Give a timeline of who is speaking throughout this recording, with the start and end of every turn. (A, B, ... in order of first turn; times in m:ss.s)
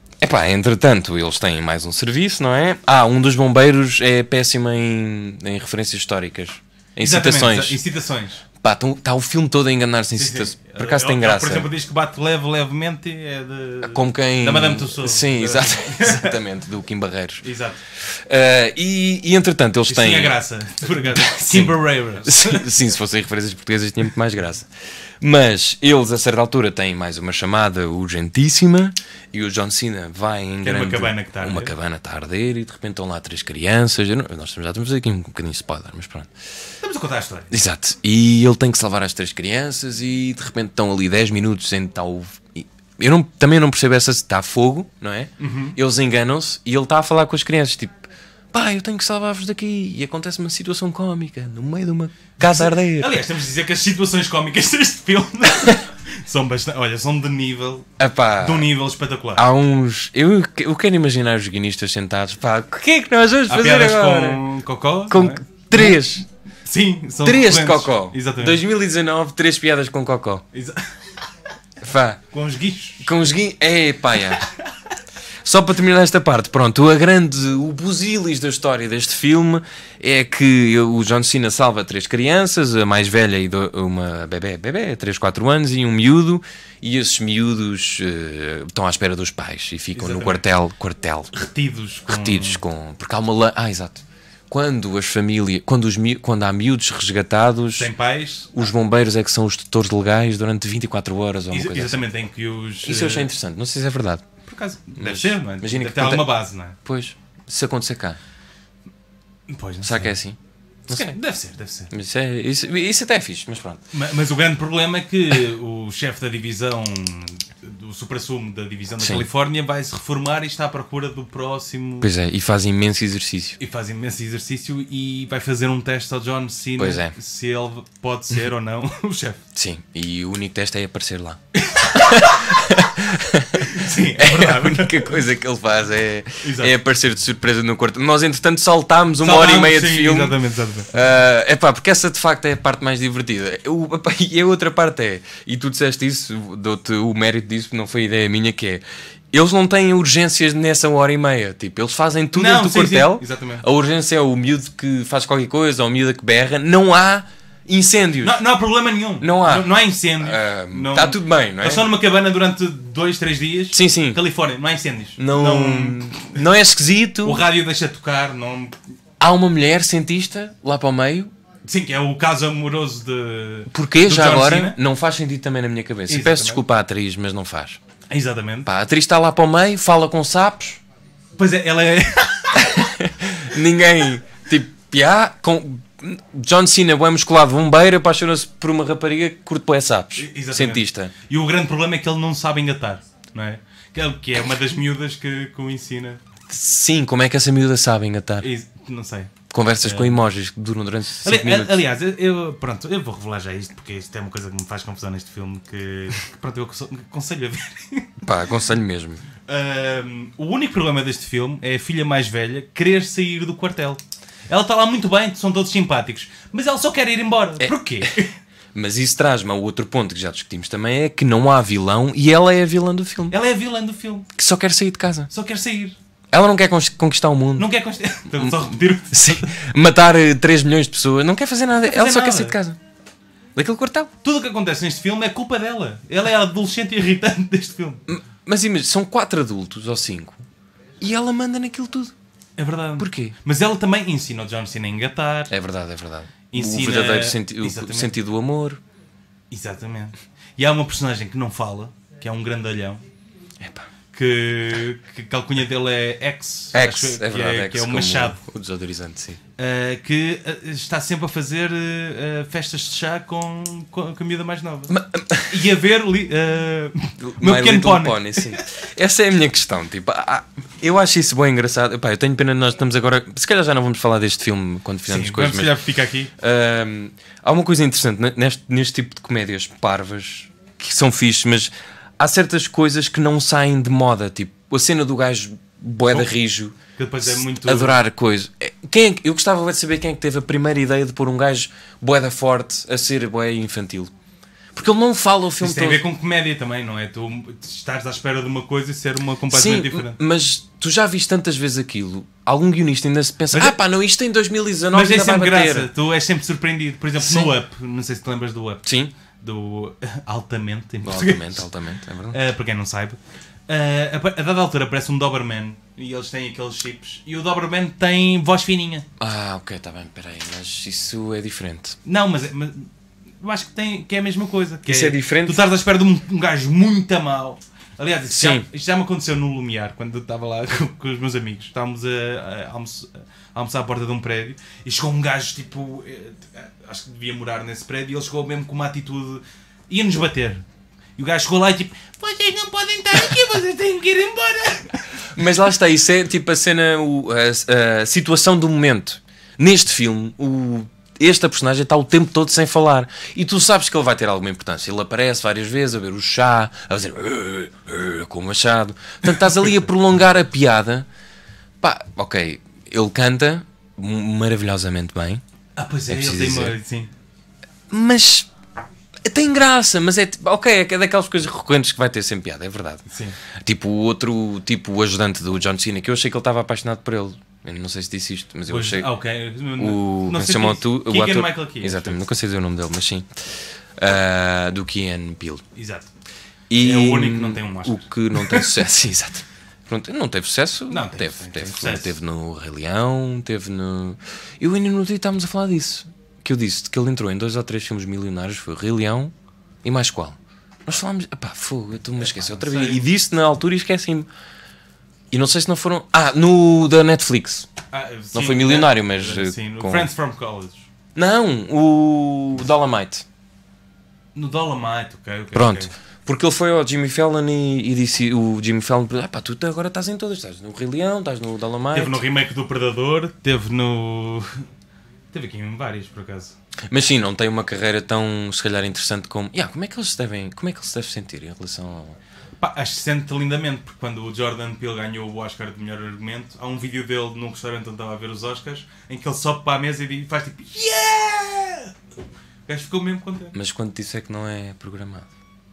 0:00.2-0:07.8 A
0:07.0-0:08.4 B
0:08.6-0:11.7 A
0:10.2-0:16.4 B
0:13.8-0:17.4 A
0:17.4-0:17.8 B
0:18.0-0:20.4 A
0:19.9-0:22.6 B
0:20.9-0:36.3 A
0:30.6-0:31.7 B
0:36.8-0:37.5 B
0:37.5-0:53.2 A
0:45.4-0:45.8 B
0:52.4-0:59.4 B
0:58.0-0:58.7 A
0:59.4-1:04.4 A
1:03.5-1:08.6 B
1:05.1-1:06.2 A
1:07.2-1:10.4 A
1:10.5-1:10.9 B
1:11.8-1:12.2 A
1:12.3-1:13.3 B
1:13.0-1:14.4 A
1:15.4-1:31.3 A
1:29.9-1:30.4 B
1:31.3-1:32.6 B
1:32.1-1:37.9 A
1:37.8-1:38.5 B
1:38.5-1:42.1 A
1:41.5-1:43.3 B
1:42.8-1:44.2 A
1:44.4-1:46.8 B
1:45.0-1:48.2 A
1:49.5-1:50.2 B
1:49.8-1:51.2 A
1:50.9-1:51.9 B
1:51.9-1:53.8 A
1:53.9-2:02.1 B
1:59.0-1:59.3 A
2:02.0-2:03.6 A
2:03.6-2:09.4 B
2:06.8-2:07.1 A
2:09.5-2:20.4 A
2:11.6-2:12.7 B
2:13.5-2:15.1 B
2:16.4-2:16.7 B
2:19.2-2:20.9 B
2:20.9-2:38.4 A
2:32.3-2:33.6 B
2:38.2-2:46.4 B
2:39.2-2:41.9 A
2:43.7-2:44.2 A
2:45.2-2:47.4 A
2:47.2-2:48.8 B
2:49.2-2:51.3 A
2:51.6-2:54.8 B
2:53.7-2:57.8 A
2:56.1-2:56.6 B
2:58.1-2:58.7 B
2:58.6-3:00.8 A
3:01.4-3:02.9 B
3:02.6-3:11.1 A
3:10.2-3:16.2 B
3:16.5-3:18.5 A
3:18.4-3:20.2 B
3:19.5-3:21.8 A
3:21.2-3:28.2 B
3:28.2-3:29.2 A
3:29.5-3:38.3 B
3:37.6-3:38.2 A
3:38.7-3:43.4 A
3:43.3-3:44.3 B
3:44.4-3:45.3 A
3:45.3-3:46.0 B
3:46.3-3:47.7 A
3:47.6-3:49.5 B
3:48.4-3:52.8 A
3:51.8-3:52.6 B
3:53.5-3:54.1 A
3:54.2-3:58.0 B
3:58.1-4:00.4 A
4:01.0-4:02.1 A
4:02.6-4:05.5 B
4:03.0-4:03.3 A
4:05.5-4:08.8 A
4:06.5-4:08.1 B
4:09.5-4:13.0 B
4:13.6-4:13.9 A
4:14.1-4:18.4 B
4:16.7-4:19.4 A
4:19.6-4:28.6 B
4:24.9-4:25.7 A
4:27.2-4:35.8 A
4:35.1-4:36.3 B
4:36.4-4:54.1 A
4:47.0-4:48.0 B
4:54.7-4:56.0 A
4:55.6-5:00.2 B
4:59.5-5:05.9 A
5:04.9-5:08.8 B
5:07.2-5:07.5 A
5:08.8-5:09.1 A
5:09.4-5:11.6 B
5:11.0-5:12.4 A
5:12.3-5:19.0 B
5:19.2-5:22.0 A
5:22.0-5:22.9 B
5:23.4-5:40.6 B
5:24.8-5:25.6 A
5:28.3-5:28.6 A
5:41.2-5:45.1 B
5:45.3-6:01.0 A
6:01.8-6:05.4 A
6:05.8-6:07.1 B
6:06.1-6:06.8 A
6:07.9-6:08.5 A
6:09.2-6:13.0 A
6:13.1-6:13.4 B
6:13.6-6:19.1 A
6:18.7-6:22.2 B
6:19.8-6:25.6 A
6:25.7-6:26.1 B
6:26.7-6:44.3 A
6:26.8-6:28.8 B
6:30.9-6:32.1 B
6:42.2-6:43.1 B
6:45.3-6:47.7 A
6:47.9-6:50.8 B
6:48.3-6:50.1 A
6:51.1-6:53.2 A
6:54.3-6:55.9 B
6:55.5-7:02.2 A
7:01.9-7:04.6 B
7:05.3-7:06.5 B
7:06.9-7:12.2 A
7:12.6-7:21.9 B
7:22.7-7:23.6 B
7:23.5-7:25.3 A